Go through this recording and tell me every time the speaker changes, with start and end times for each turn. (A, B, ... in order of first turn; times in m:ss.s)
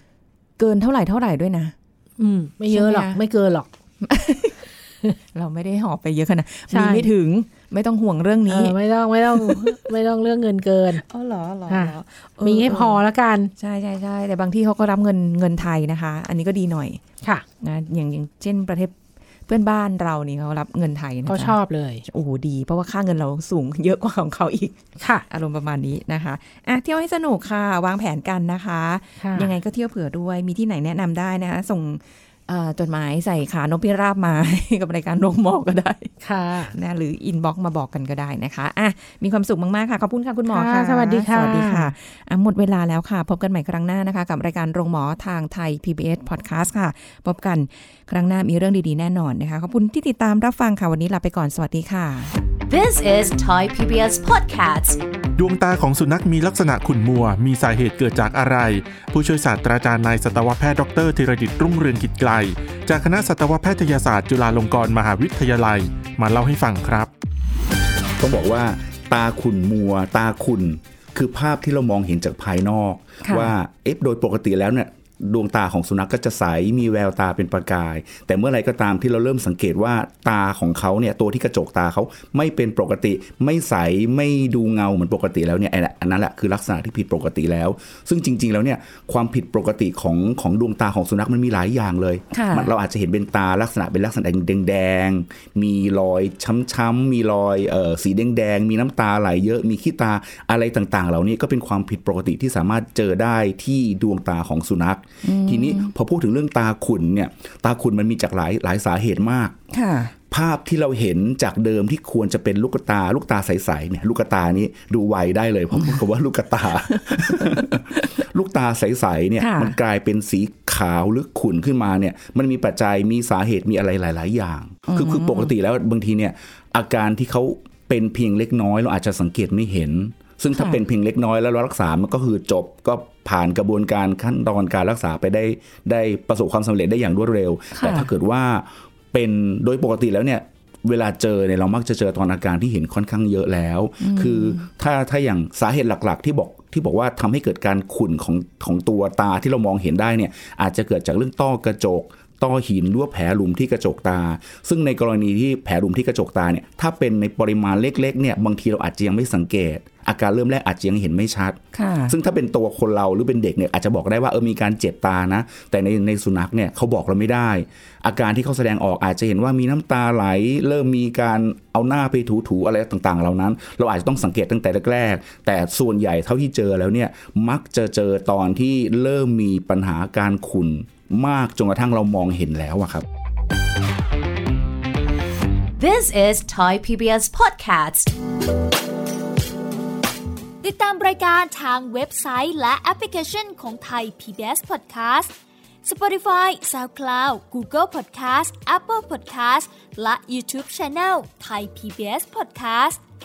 0:00.6-0:01.8 A
0:02.2-0:03.7 B
0:02.7-0:03.2 A
0:04.0-0:04.6 A
0:05.3-0:08.8 A
0:06.7-0:07.1 B
0:08.5-0:11.0 B
0:09.3-0:09.8 A
0:11.0-0:13.0 A
0:11.7-0:13.5 B
0:13.6-0:17.0 A
0:17.6-0:19.0 A
0:19.5-0:36.1 A
0:21.3-0:22.0 B
0:25.0-0:25.2 B
0:29.2-0:29.6 B
0:36.2-0:36.8 B
0:36.7-0:52.3 A
0:40.5-0:41.9 B
0:52.7-0:55.0 C
0:55.4-1:07.1 D
1:08.2-1:49.6 E
1:13.2-1:13.6 A
1:32.3-1:32.7 A
1:45.2-1:45.9 A
1:49.7-1:50.1 A
1:50.3-3:03.0 E
1:55.7-1:56.0 A
1:56.9-1:58.1 A
1:59.4-1:59.8 A
2:04.9-2:05.5 A
2:10.5-2:10.8 A
2:17.7-2:18.1 A
2:24.0-2:24.6 A
2:41.7-2:42.2 A
3:05.8-3:08.1 C
3:10.6-3:15.3 F
3:15.8-3:23.0 F